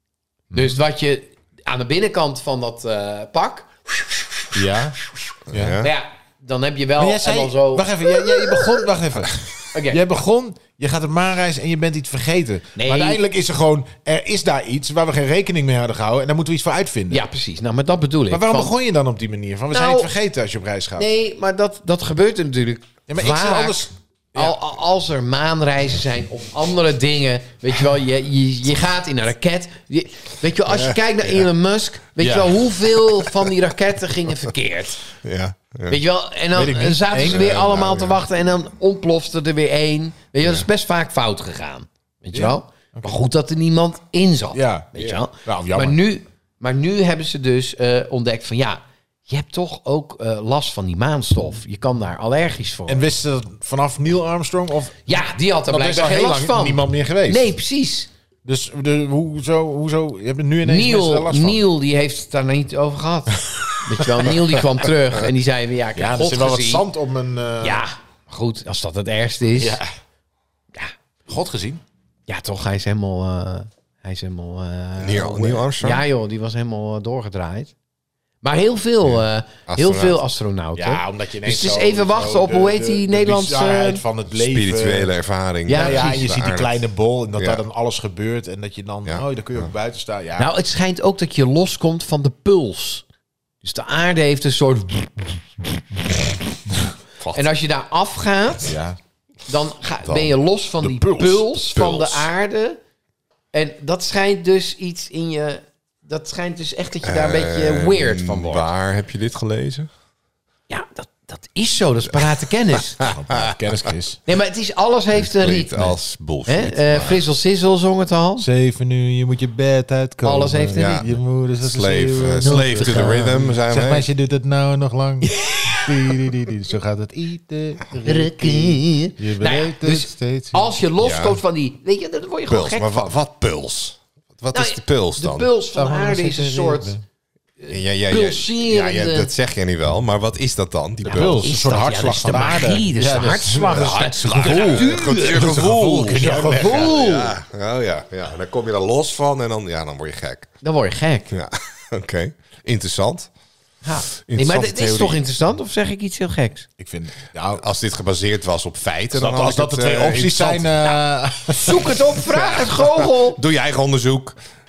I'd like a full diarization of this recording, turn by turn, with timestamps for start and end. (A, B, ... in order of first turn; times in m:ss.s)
0:00.5-0:05.2 A
0:04.5-0:05.0 B
0:05.5-0:05.9 C
0:05.5-0:05.8 B
0:05.8-0:08.6 A
0:07.0-0:17.2 B
0:09.7-0:10.0 A
0:12.7-0:13.2 A
0:17.1-0:18.7 A
0:18.3-0:21.1 B
0:19.7-0:20.1 A
0:21.0-0:35.1 A
0:23.1-0:24.5 B
0:30.7-0:31.0 C
0:32.2-0:32.8 B
0:35.2-0:36.0 C
0:35.9-0:53.0 A
0:36.5-0:37.7 B
0:37.2-0:38.2 C
0:42.3-0:43.1 B
0:44.5-0:46.0 B
0:52.9-0:55.0 B
0:55.1-0:58.1 A
0:55.7-0:57.5 B
0:58.4-1:01.6 B
1:00.6-1:06.9 A
1:05.9-1:07.8 B
1:07.6-1:09.8 A
1:09.6-1:09.8 B
1:11.3-1:11.8 B
1:12.3-1:17.7 A
1:15.0-1:16.0 C
1:18.4-1:24.0 A
1:19.0-1:20.2 C
1:20.8-1:25.1 B
1:24.3-1:26.8 C
1:25.7-1:26.3 A
1:25.7-1:30.5 B
1:27.4-1:27.6 C
1:29.0-1:29.7 C
1:30.4-1:33.0 A
1:33.6-1:36.1 A
1:37.2-1:37.5 C
1:37.3-1:38.7 A
1:38.6-1:39.0 B
1:39.5-1:42.8 A
1:40.0-1:40.3 C
1:41.0-1:41.3 B
1:41.2-1:42.3 C
1:43.5-1:48.7 A
1:47.0-1:49.9 C
1:50.7-1:53.0 A
1:53.0-1:54.2 B
1:54.2-1:58.5 A
1:55.1-1:57.3 C
1:58.4-2:10.7 B
2:00.2-2:01.0 A
2:00.8-2:01.1 C
2:01.6-2:04.0 C
2:02.4-2:03.4 A
2:05.3-2:06.1 A
2:08.0-2:13.1 A
2:11.0-2:11.4 C
2:12.5-2:15.5 C
2:14.5-2:17.0 A
2:15.7-2:17.0 B
2:17.6-2:19.3 A
2:17.7-2:21.4 C
2:21.0-2:27.0 B
2:21.1-2:25.6 A
2:23.7-2:30.5 C
2:26.2-2:27.4 A
2:30.6-2:31.3 A
2:31.3-2:33.3 C
2:33.8-2:36.7 A
2:34.3-2:35.2 C
2:36.8-2:37.6 B
2:37.5-2:40.9 C
2:39.1-2:42.1 B
2:41.5-2:43.4 A
2:42.3-2:44.4 C